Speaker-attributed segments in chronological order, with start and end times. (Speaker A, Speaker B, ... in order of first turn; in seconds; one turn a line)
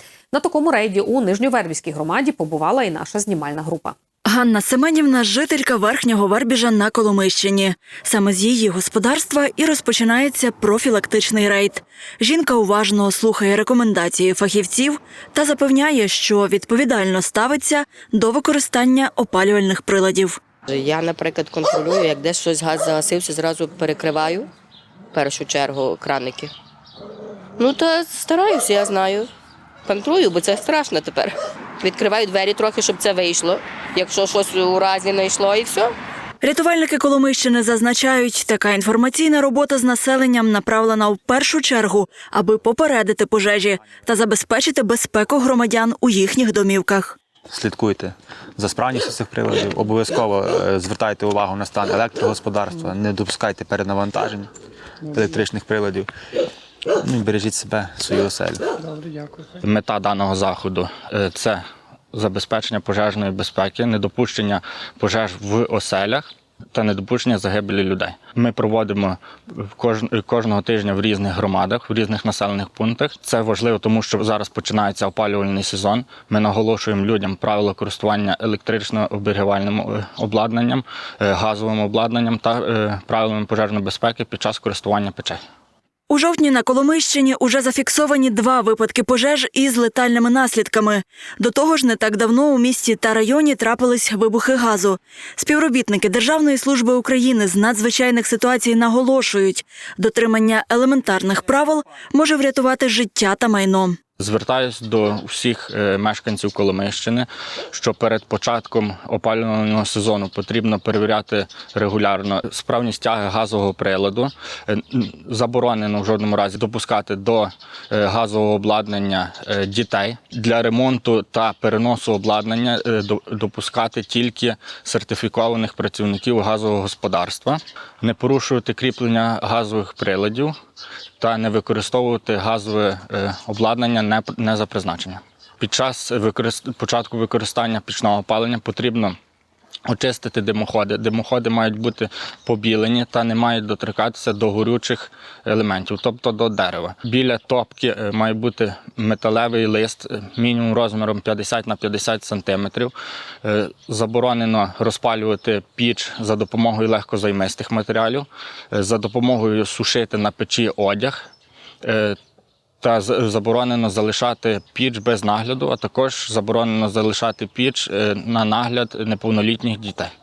Speaker A: 0.3-4.0
Speaker B: 4.3-20.4
Speaker C: 20.7-24.5
Speaker C: 25.1-26.5
Speaker C: 27.6-29.3
Speaker C: 29.9-36.0
Speaker B: 36.4-47.2
Speaker D: 47.5-54.5
Speaker D: 55.0-56.1
Speaker D: 57.0-58.7
Speaker E: 59.6-61.6
Speaker E: 62.1-85.4
Speaker B: 86.1-104.0
Speaker E: 104.2-130.5
Speaker E: 131.2-139.2
Speaker E: 139.9-161.2
Speaker E: 161.8-162.2
Speaker E: 162.8-170.1